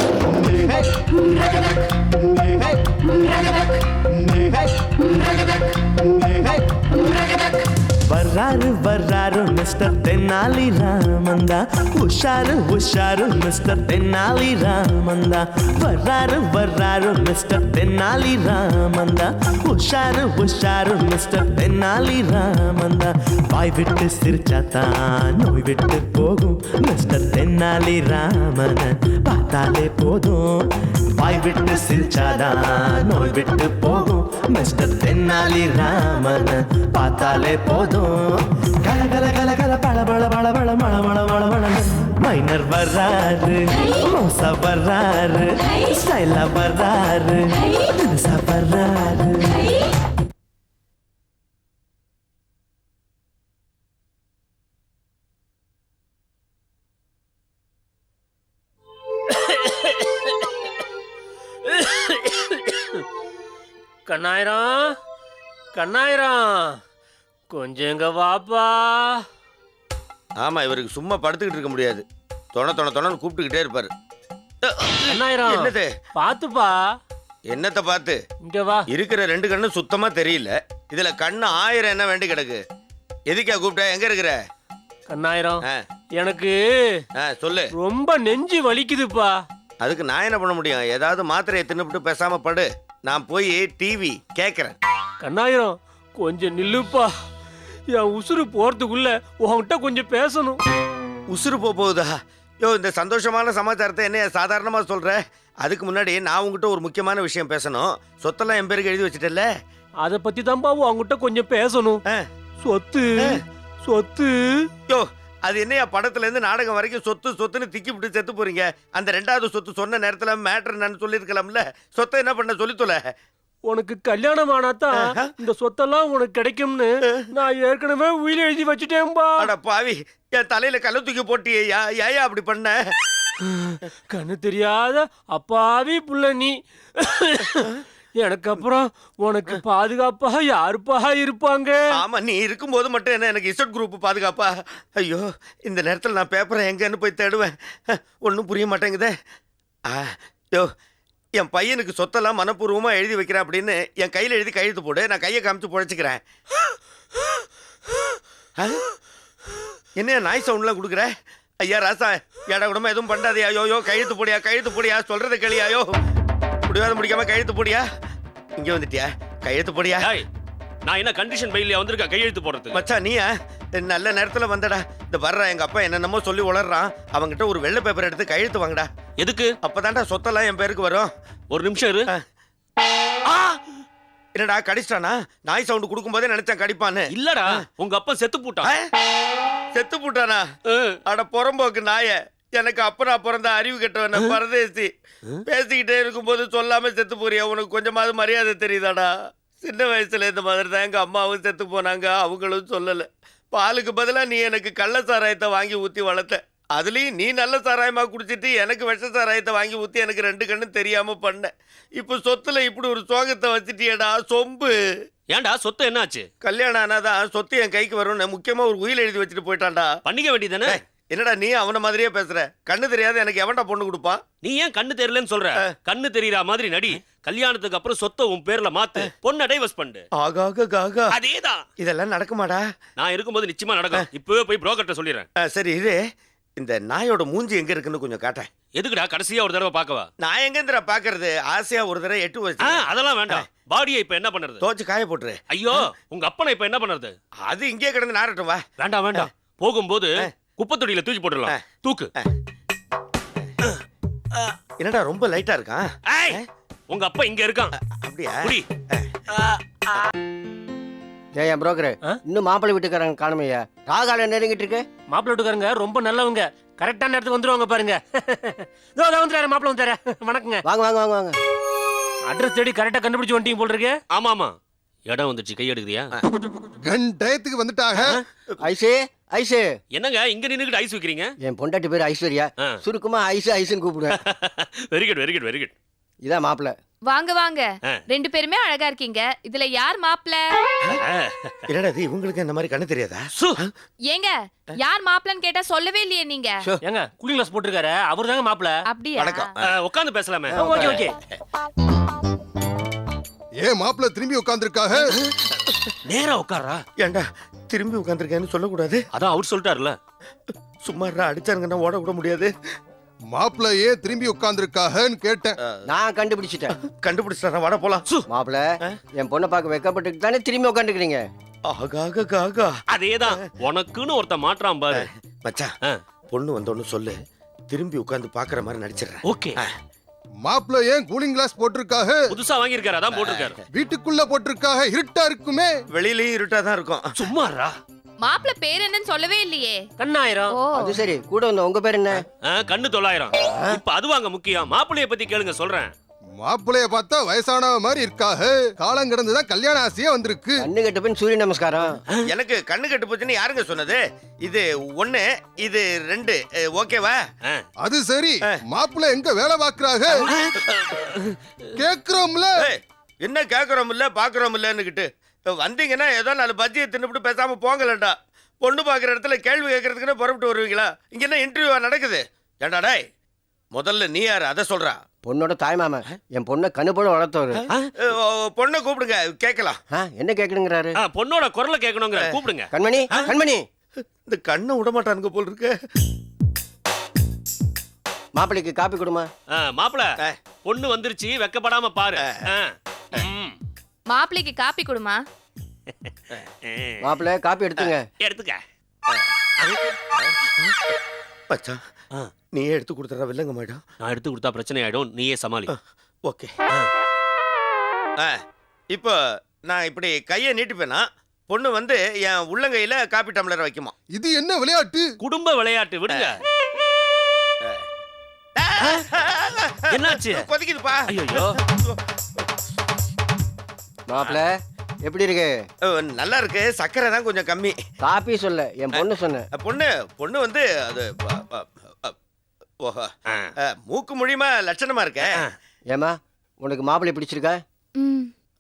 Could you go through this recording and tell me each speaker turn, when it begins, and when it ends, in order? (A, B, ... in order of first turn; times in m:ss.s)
0:08.0-0:30.6 A
0:31.2-0:49.6 A
0:59.3-1:00.4 B
1:01.7-1:02.8 B
1:04.1-1:04.9 B
1:05.8-1:06.8 B
1:07.5-1:09.2 B
1:10.4-1:13.9 C
1:14.6-1:15.9 C
1:15.1-1:16.8 B
1:17.5-1:18.2 C
1:18.4-1:18.9 B
1:18.9-1:22.6 C
1:23.3-1:24.4 C
1:25.1-1:25.6 B
1:26.2-1:27.0 B
1:27.2-1:27.7 C
1:27.7-1:29.4 B
1:29.8-1:34.8 C
1:35.2-1:37.1 B
1:37.9-1:40.6 B
1:41.3-1:49.5 C
1:50.0-1:52.0 B
1:52.6-1:54.5 B
1:54.9-2:03.1 C
2:03.7-2:09.5 B
2:05.0-2:05.3 C
2:09.4-2:12.9 C
2:13.5-2:21.8 B
2:22.0-2:29.1 C
2:29.9-2:30.7 C
2:31.4-2:36.2 C
2:40.0-2:41.1 C
2:41.6-2:46.0 C
2:46.7-2:47.9 C
2:48.6-2:50.1 C
2:50.0-2:50.3 D
2:50.9-2:52.8 D
2:52.7-2:58.9 C
2:59.2-2:59.5 D
2:59.6-3:01.1 C
3:01.5-3:02.0 D
3:04.3-3:07.6 C
3:07.1-3:08.7 D
3:08.6-3:08.9 C
3:09.7-3:10.5 C
3:10.7-3:11.0 D
3:11.1-3:14.9 C
3:15.5-3:34.7 C
3:35.3-3:36.3 D
3:36.4-3:39.9 C
3:40.0-3:40.8 D
3:40.7-3:44.2 C
3:44.4-3:50.0 D
3:50.2-3:51.1 C
3:51.1-3:51.6 D
3:51.8-3:52.6 C
3:53.0-3:55.3 D
3:55.4-3:56.0 C
3:56.6-3:58.5 C
3:58.8-4:00.1 D
4:00.2-4:03.4 C
4:02.6-4:04.6 D
4:04.6-4:05.4 C
4:05.5-4:07.1 D
4:07.5-4:09.3 C
4:08.8-4:10.1 D
4:10.6-4:12.1 D
4:14.8-4:16.4 C
4:16.1-4:16.4 D
4:16.9-4:17.7 D
4:17.9-4:19.1 C
4:21.3-4:24.8 E
4:25.1-4:30.6 B
4:30.6-4:31.4 E
4:32.3-4:34.0 B
4:34.1-4:34.5 D
4:35.1-4:36.1 D
4:36.8-4:38.2 F
4:38.6-4:39.7 E
4:39.9-4:41.3 D
4:41.4-4:44.2 E
4:44.2-4:45.7 D
4:46.2-4:46.8 E
4:47.1-4:50.5 G
4:50.9-4:51.6 D
4:51.7-4:53.7 C
4:54.1-4:56.6 G
4:56.8-4:58.7 B
4:58.9-4:59.5 G
4:59.2-4:59.7 C
4:59.6-5:01.1 D
5:00.5-5:01.0 E
5:00.6-5:01.1 B
5:03.6-5:05.2 F
5:06.1-5:06.8 D
5:07.0-5:09.0 C
5:09.1-5:10.0 D
5:10.8-5:12.5 C
5:13.3-5:15.6 F
5:15.9-5:16.7 E
5:16.8-5:18.0 C
5:18.3-5:21.2 E
5:21.7-5:23.4 C
5:22.9-5:25.1 D
5:24.9-5:25.7 C
5:26.3-5:27.2 C
5:27.7-5:29.7 C
5:29.2-5:29.6 D
5:30.4-5:32.3 F
5:32.3-5:33.6 D
5:33.1-5:33.6 C
5:33.7-5:35.8 F
5:35.9-5:37.1 C
5:37.2-5:37.8 D
5:38.2-5:39.8 G
5:40.0-5:40.5 B
5:40.5-5:41.0 G
5:40.8-5:42.2 E
5:42.4-5:45.9 D
5:43.5-5:43.8 E
5:46.4-5:50.6 F
5:50.6-5:52.0 E
5:52.2-5:57.2 C
5:57.8-6:00.3 F
6:00.3-6:01.4 D
6:01.8-6:02.7 F
6:02.6-6:13.0 C
6:13.7-6:15.0 C
6:15.2-6:17.6 E
6:18.0-6:19.8 C
6:19.9-6:20.9 E
6:21.0-6:22.7 D
6:22.7-6:23.7 E
6:24.2-6:25.8 C
6:28.4-6:29.3 E
6:29.5-6:30.1 D
6:30.6-6:33.6 D
6:34.1-6:35.2 G
6:36.6-6:36.9 D
6:37.0-6:38.0 E
6:38.2-6:38.6 D
6:39.6-6:39.9 D
6:40.2-6:40.9 C
6:41.5-6:41.8 C
6:42.5-6:43.8 C
6:44.0-6:45.7 D
6:46.2-6:46.5 C
6:48.9-6:53.9 C
6:54.1-6:55.1 F
6:55.2-6:56.4 D
6:58.6-7:02.0 C
6:59.9-7:00.4 D
7:01.1-7:01.6 D
7:04.1-7:04.5 E
7:05.0-7:05.6 E
7:05.8-7:07.8 C
7:08.0-7:09.4 E
7:09.5-7:12.1 C
7:12.8-7:13.1 C
7:13.8-7:15.4 C
7:15.9-7:17.6 E
7:18.0-7:18.3 G